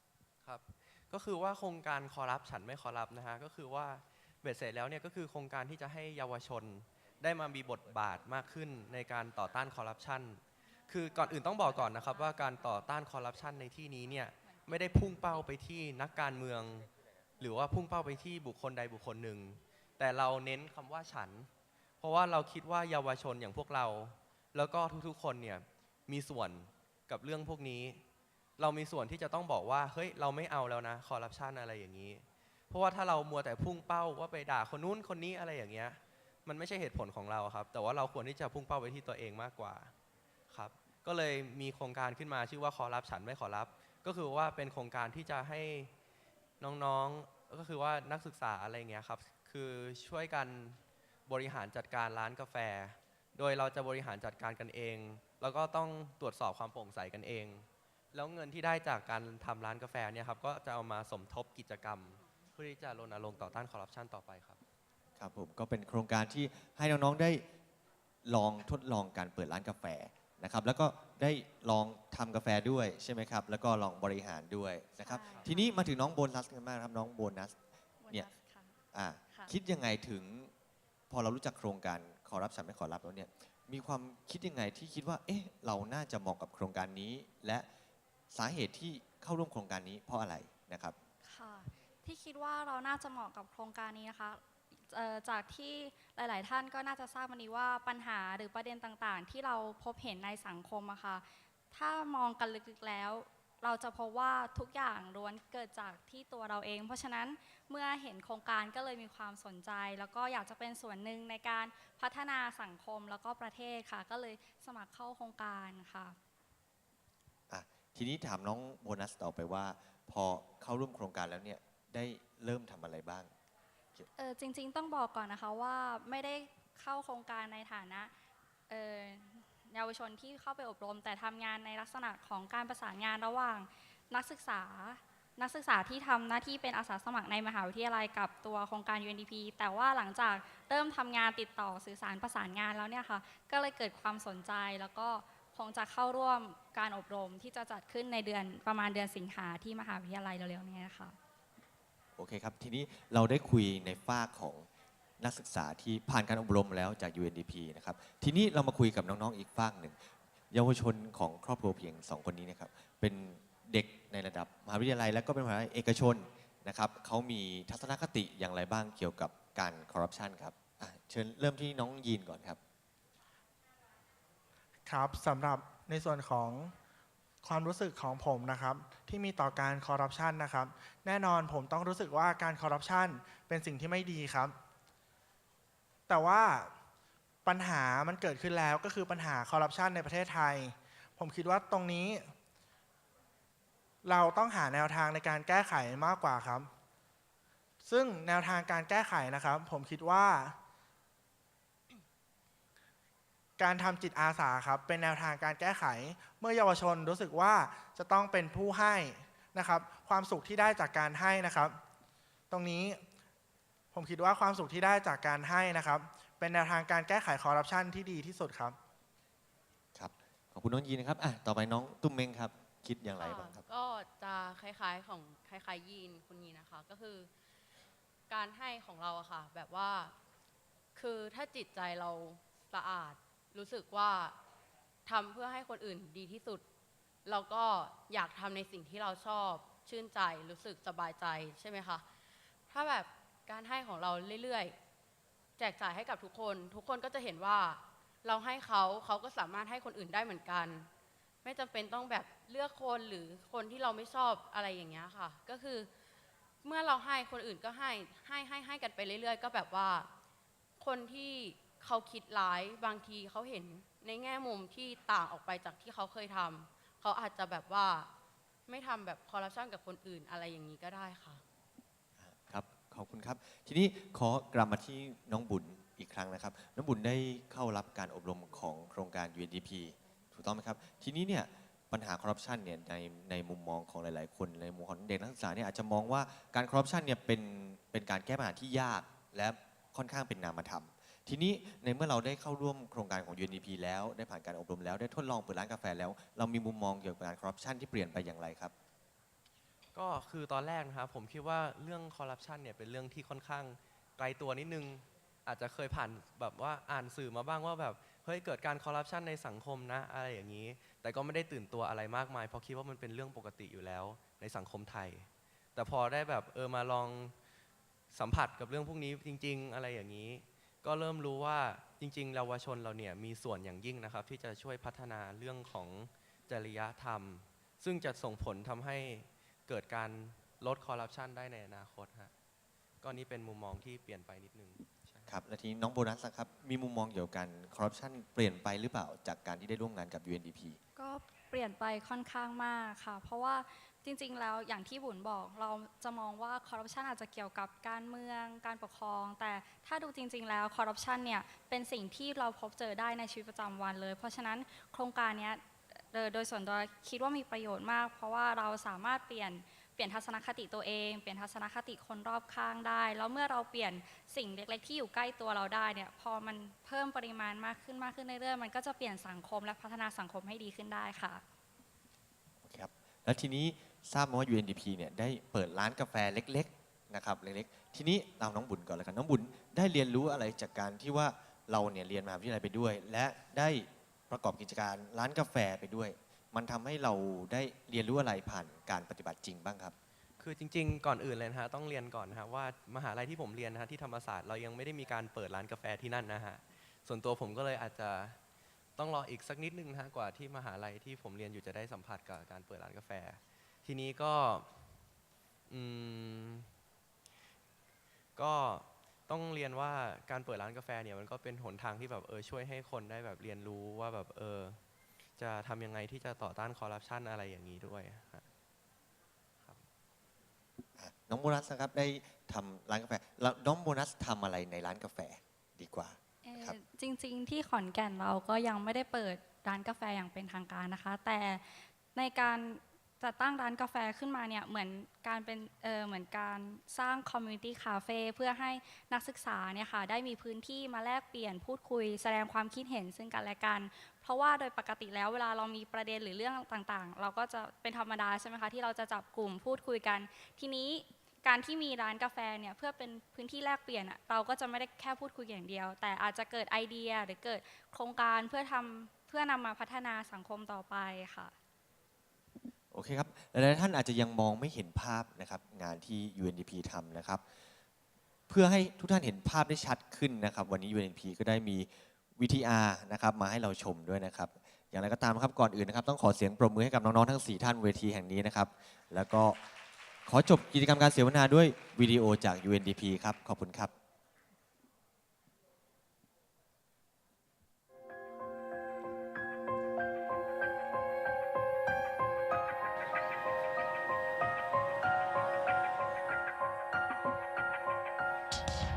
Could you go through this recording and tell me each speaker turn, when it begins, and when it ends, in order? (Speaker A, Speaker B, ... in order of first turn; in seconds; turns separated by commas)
Speaker A: 0.4-21.5, Speaker B: 11.1-12.5, Speaker A: 22.0-28.0, Speaker A: 28.6-39.9, Speaker A: 40.5-45.9, Speaker A: 46.6-64.6, Speaker C: 65.2-67.4, Speaker C: 68.2-77.5, Speaker B: 75.0-75.7, Speaker B: 78.0-78.8, Speaker C: 78.9-80.5, Speaker C: 81.1-87.7, Speaker C: 88.3-91.0, Speaker B: 91.2-116.2, Speaker C: 117.5-123.3, Speaker B: 124.2-128.1, Speaker B: 128.7-151.2, Speaker C: 152.2-154.6, Speaker C: 155.2-160.0, Speaker C: 160.5-172.6, Speaker D: 174.8-176.7, Speaker D: 177.4-184.5, Speaker D: 186.1-186.7, Speaker D: 187.4-192.3, Speaker D: 194.0-196.7, Speaker D: 197.8-200.6, Speaker D: 203.6-211.8, Speaker D: 212.5-213.0, Speaker D: 213.9-218.8, Speaker C: 219.9-223.6, Speaker E: 223.2-227.3, Speaker E: 228.3-230.1, Speaker E: 230.9-234.3, Speaker E: 235.1-236.6, Speaker E: 237.2-242.0, Speaker E: 242.7-244.8, Speaker E: 245.6-250.9, Speaker E: 251.4-255.9, Speaker E: 256.6-260.1, Speaker E: 260.8-268.1, Speaker E: 268.7-271.4, Speaker C: 272.2-298.7, Speaker A: 299.9-317.3, Speaker A: 318.1-332.3, Speaker A: 333.0-335.3, Speaker C: 335.2-340.8, Speaker B: 340.9-371.4, Speaker C: 372.6-389.9, Speaker A: 390.4-398.4, Speaker A: 399.0-404.8, Speaker A: 405.7-406.7, Speaker A: 408.4-414.8, Speaker A: 415.4-418.4, Speaker C: 421.0-426.8, Speaker B: 426.4-461.5, Speaker C: 462.9-467.4, Speaker C: 468.5-479.6, Speaker C: 480.2-483.9